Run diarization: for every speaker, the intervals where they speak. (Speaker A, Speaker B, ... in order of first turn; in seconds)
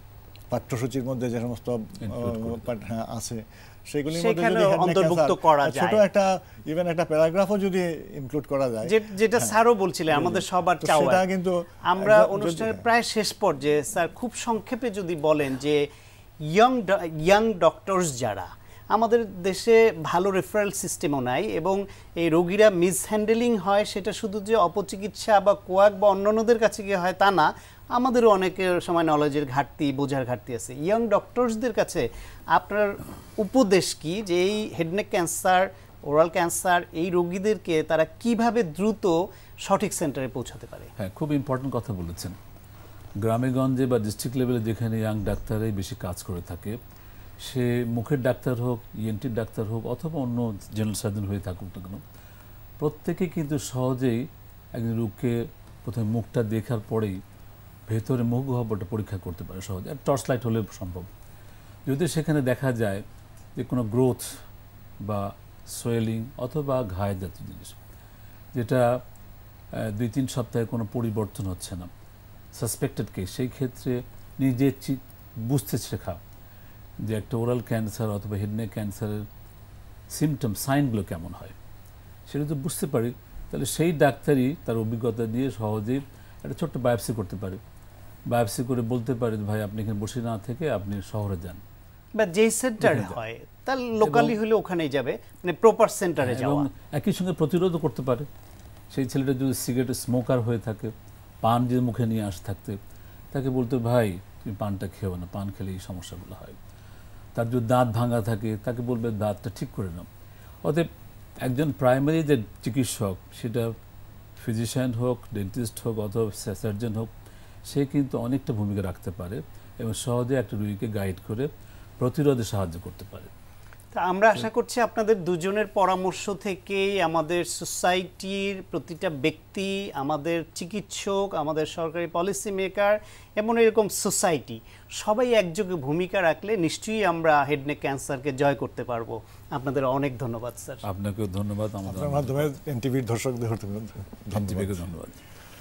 Speaker A: 0.5-9.6, 10.1-12.9, 141.9-144.9
Speaker B: 2.0-2.6, 41.0-42.4, 43.2-46.8, 47.4-52.0, 52.8-54.2, 54.8-57.2, 57.9-61.1, 61.9-63.0, 63.6-64.3, 65.0-67.8, 68.5-68.9, 69.8-71.9, 72.5-76.2, 77.0-79.2, 80.1-81.5, 82.3-87.6, 88.3-91.6, 92.8-93.2, 94.0-94.4, 96.2-98.3, 98.9-100.9, 101.4-102.8, 103.3-106.6, 107.3-110.1, 111.5-113.7, 114.4-117.1, 117.7-121.5, 122.0-123.3, 140.8-142.5, 144.3-145.2
Speaker C: 4.1-6.0, 8.9-11.2, 11.8-15.8, 16.4-40.9, 92.2-96.7, 124.0-140.8